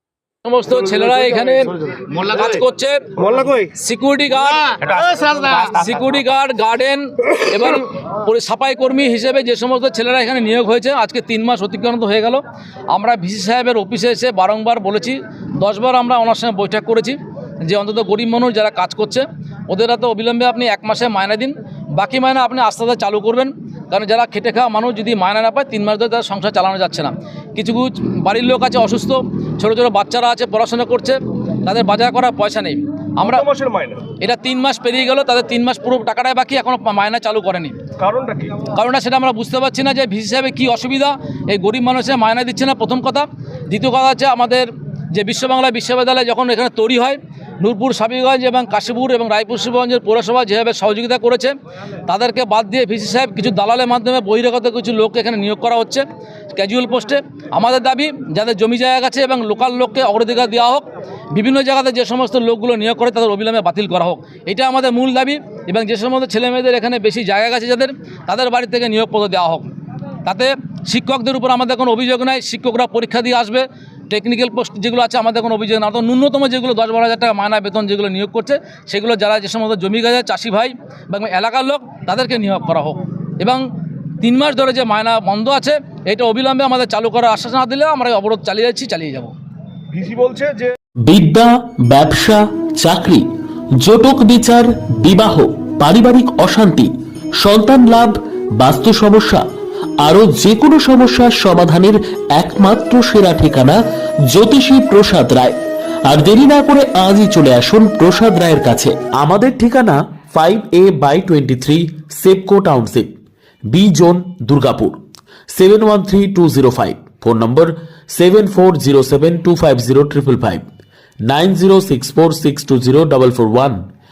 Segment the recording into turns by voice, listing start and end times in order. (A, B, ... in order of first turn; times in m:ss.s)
0:00.4-0:33.5 A
0:33.2-0:34.0 B
0:34.2-0:37.8 A
0:38.0-0:38.7 B
0:38.7-0:51.5 A
0:52.1-1:09.7 A
1:10.2-1:23.6 A
1:24.2-1:29.3 A
1:29.9-1:30.7 B
1:31.0-1:33.3 C
1:33.8-1:39.4 C
1:40.0-1:43.8 C
1:44.3-1:45.6 C
1:46.1-1:53.1 C
1:53.7-1:55.0 C
1:55.5-2:00.6 C
2:01.3-2:03.8 C